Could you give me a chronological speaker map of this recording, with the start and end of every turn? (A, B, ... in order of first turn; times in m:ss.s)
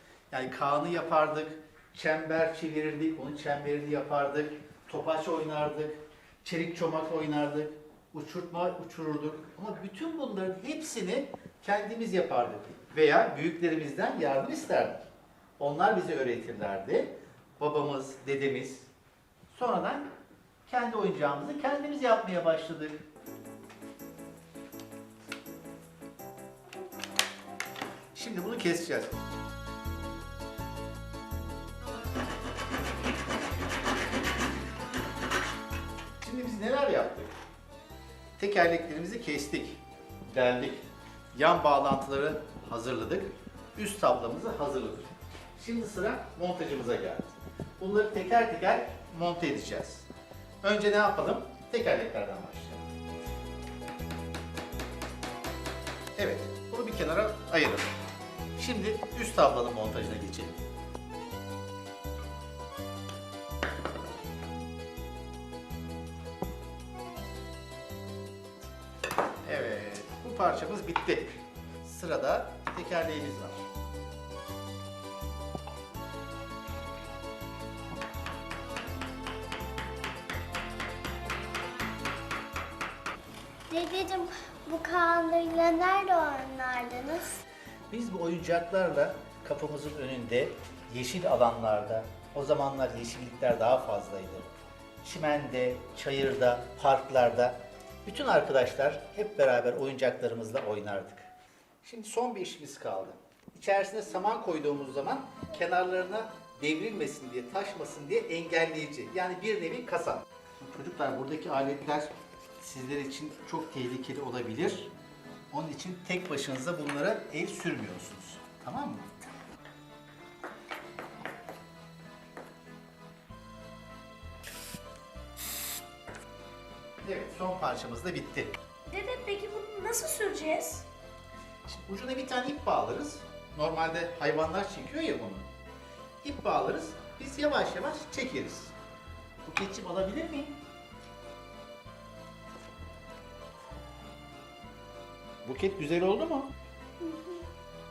0:00.3-0:15.0 A
0:15.6-0:18.9 A
0:19.5-0:20.1 A
0:20.7-0:23.0 A
0:28.1-0:29.2 A
0:36.2-0:37.3 A
0:38.4-0:50.1 A
0:50.6-0:52.9 A
0:56.2-0:57.9 A
0:58.6-1:00.6 A
1:09.4-1:13.6 A
1:23.7-1:27.4 B
1:27.9-1:34.5 A
1:35.0-1:41.3 A
1:41.8-1:54.9 A
1:55.5-1:59.3 A
2:07.0-2:08.5 A
2:08.9-2:10.9 C
2:11.7-2:15.5 A
2:16.2-2:18.7 A
2:19.4-2:20.6 A
2:25.4-2:26.5 A
2:27.0-2:27.5 C